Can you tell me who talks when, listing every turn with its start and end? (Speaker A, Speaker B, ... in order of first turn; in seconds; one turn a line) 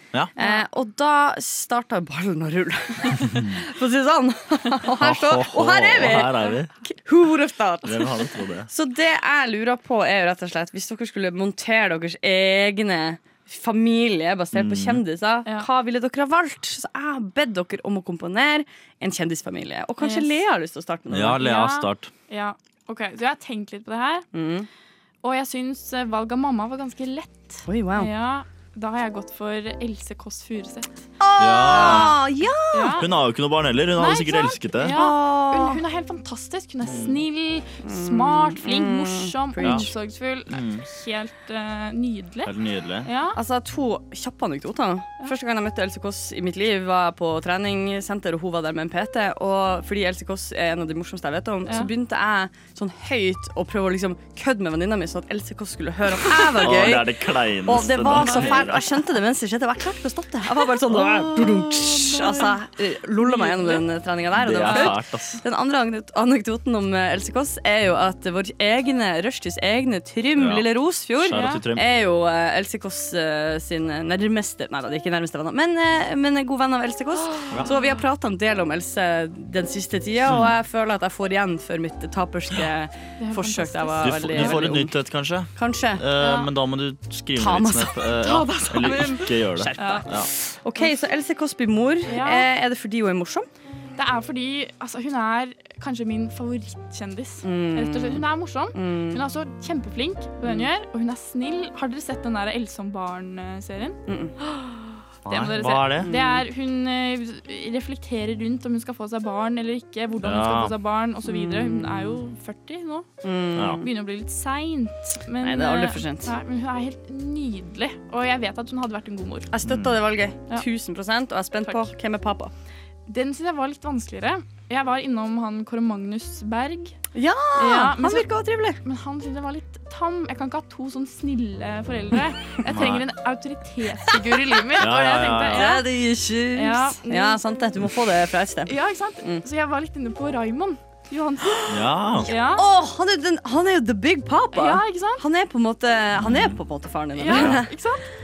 Speaker A: 0.3-21.4
Speaker B: 0.4-0.7
Speaker C: 3.2-3.6
Speaker C: 5.0-6.7
Speaker C: 7.8-8.7
Speaker C: 14.5-15.0
Speaker B: 20.0-20.4
Speaker C: 21.1-22.1
Speaker B: 21.4-24.3
Speaker A: 24.3-24.7
Speaker B: 25.2-31.1
Speaker A: 27.7-28.1
Speaker A: 31.2-33.0
Speaker C: 31.4-32.2
Speaker B: 31.7-32.1
Speaker B: 32.7-33.1
Speaker C: 32.9-35.0
Speaker B: 34.0-42.5
Speaker A: 34.9-35.8
Speaker C: 36.8-37.2
Speaker A: 37.8-39.9
Speaker C: 39.6-39.9
Speaker C: 40.5-40.9
Speaker C: 42.4-43.1
Speaker B: 43.0-43.4
Speaker A: 43.3-85.0
Speaker C: 56.5-58.8
Speaker B: 58.1-58.8
Speaker C: 60.9-62.3
Speaker B: 62.1-62.4
Speaker B: 63.2-63.9
Speaker C: 64.3-65.4
Speaker B: 64.6-65.0
Speaker C: 70.4-71.9
Speaker B: 71.3-71.7
Speaker B: 77.4-77.9
Speaker C: 80.3-80.5
Speaker B: 83.2-84.8
Speaker C: 84.0-90.3
Speaker A: 85.5-86.1
Speaker B: 86.2-86.5
Speaker A: 87.4-88.1
Speaker B: 88.2-90.1
Speaker A: 89.6-93.5
Speaker B: 92.1-92.5
Speaker B: 94.0-113.1
Speaker A: 97.4-99.2
Speaker A: 100.4-100.7
Speaker A: 104.1-104.4
Speaker C: 105.2-106.1
Speaker A: 106.0-106.5
Speaker C: 110.2-110.8
Speaker A: 111.2-112.2
Speaker A: 113.2-113.9
Speaker C: 113.6-113.8
Speaker B: 113.8-119.5
Speaker A: 115.4-116.3
Speaker A: 119.5-122.5
Speaker C: 119.6-120.0
Speaker B: 121.6-121.9
Speaker B: 123.1-127.0
Speaker A: 127.1-128.8
Speaker B: 127.6-135.8
Speaker C: 132.7-133.1
Speaker C: 134.8-135.8
Speaker A: 135.5-139.4
Speaker B: 136.6-137.4
Speaker B: 138.7-142.7
Speaker A: 141.5-147.7
Speaker C: 141.7-142.3
Speaker B: 144.5-145.2
Speaker C: 146.2-146.6
Speaker B: 147.2-148.1
Speaker C: 147.3-147.6